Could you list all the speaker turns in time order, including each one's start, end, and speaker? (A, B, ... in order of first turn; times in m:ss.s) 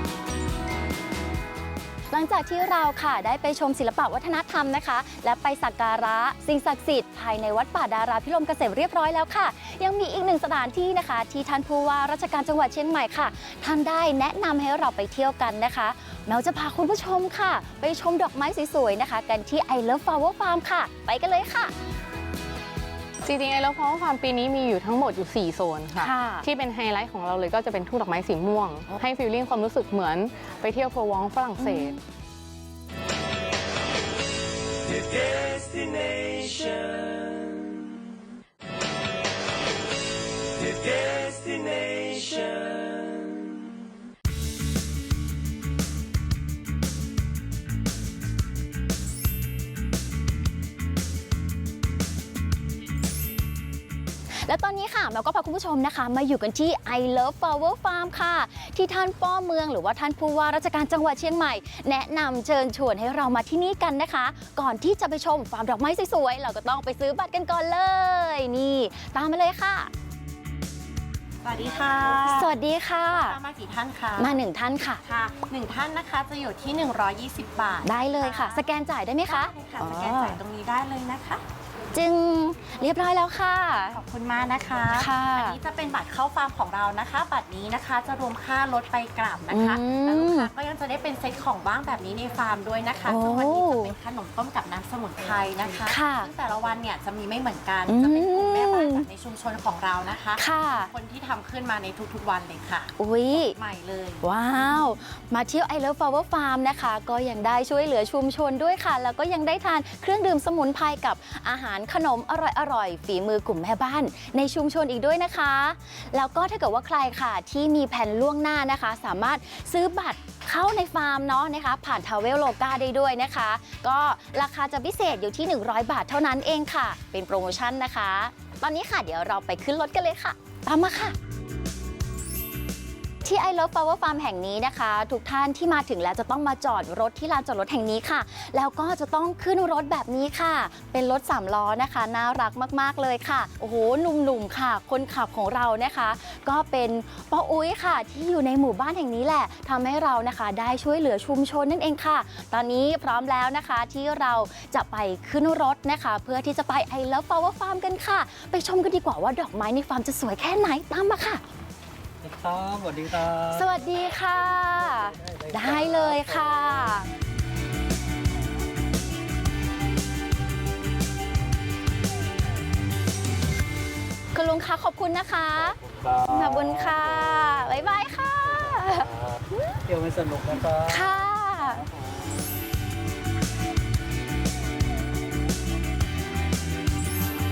0:02.1-0:21.7 A
0:23.2-0:32.0 B
0:26.0-0:26.5 A
0:31.6-0:32.0 A
0:54.4-1:09.9 A
1:11.4-1:12.5 C
1:12.3-1:13.4 A
1:13.1-1:14.4 C
1:14.2-1:15.0 A
1:15.0-1:21.4 C
1:17.8-1:20.4 A
1:21.9-1:24.0 A
1:23.9-1:44.2 C
1:25.0-1:25.6 A
1:29.5-1:30.5 A
1:33.1-1:34.0 A
1:35.9-1:36.3 A
1:37.9-1:39.1 A
1:40.4-1:40.9 A
1:43.0-1:43.6 A
1:44.2-2:11.2 A
2:13.2-2:41.4 A
2:42.2-2:43.7 D
2:43.5-2:47.1 A
2:44.8-2:47.0 D
2:54.3-2:59.1 A
2:55.6-2:57.8 D
2:58.3-3:02.0 D
3:00.8-3:01.8 A